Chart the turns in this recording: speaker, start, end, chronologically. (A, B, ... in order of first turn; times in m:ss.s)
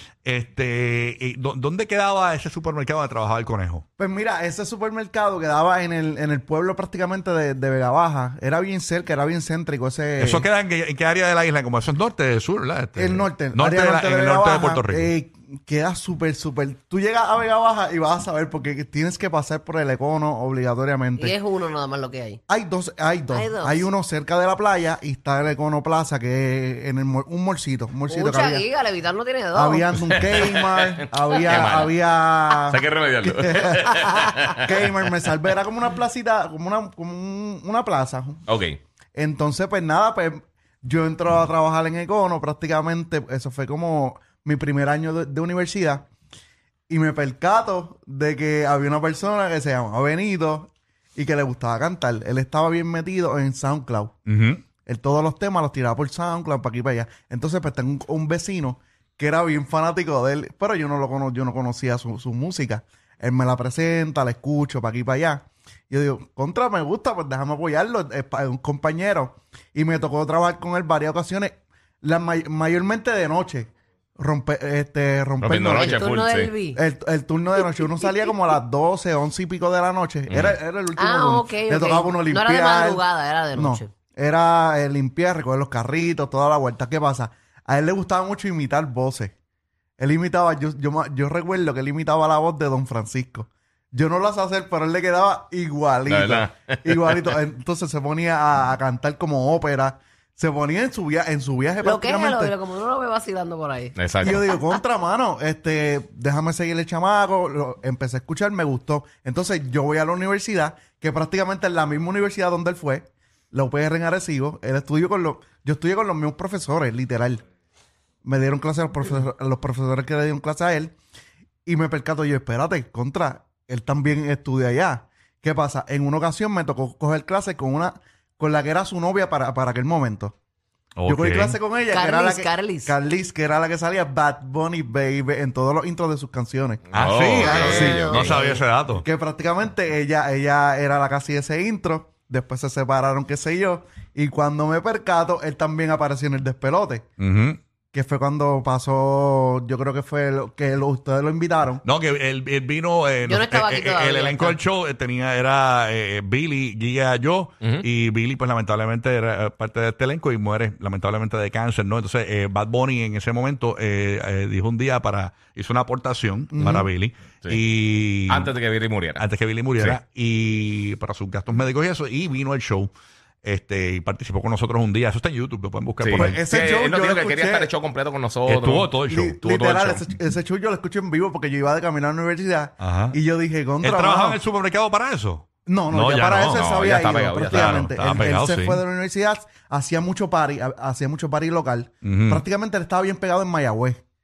0:00.2-0:03.8 A
0:04.0-0:10.4 B
0:10.2-0:15.1 A
0:13.0-0:21.4 B
0:21.2-0:22.4 C
0:22.5-0:28.7 B
0:23.3-0:23.9 C
0:28.1-0:29.8 C
0:29.5-0:38.4 B
0:30.1-0:34.8 D
0:38.5-0:38.8 D
0:39.2-0:46.1 B
0:46.9-0:54.1 B
0:54.3-0:54.6 A
0:54.8-1:16.0 B
1:15.4-1:16.5 D
1:15.8-1:16.8 C
1:16.7-1:23.0 B
1:17.6-1:18.1 C
1:20.3-1:20.6 D
1:21.0-1:23.9 C
1:23.5-1:29.3 B
1:30.0-1:42.5 B
1:36.0-1:37.3 D
1:41.8-1:44.0 C
1:44.0-1:44.4 D
1:44.2-1:57.4 B
1:58.2-2:00.9 B
2:01.6-2:10.3 B
2:11.0-2:11.6 A
2:11.0-2:18.4 B
2:11.9-2:12.9 C
2:16.9-2:18.4 D
2:16.9-2:19.0 A
2:17.5-2:18.6 C
2:18.9-2:27.0 B
2:27.2-2:27.6 A
2:27.9-2:31.8 B
2:31.8-2:48.5 A
2:33.2-2:34.6 C
2:46.5-2:46.9 B
2:48.3-2:49.2 D
2:49.2-2:52.9 A
2:53.4-2:56.4 A
2:56.0-2:58.9 D
2:56.2-2:57.7 B
2:58.4-2:59.8 A
2:59.1-3:04.4 B
2:59.6-3:00.0 D
3:02.8-3:03.2 A
3:03.8-3:06.8 A
3:05.6-3:14.0 B
3:06.7-3:08.2 D
3:07.5-3:08.8 A
3:12.0-3:12.4 A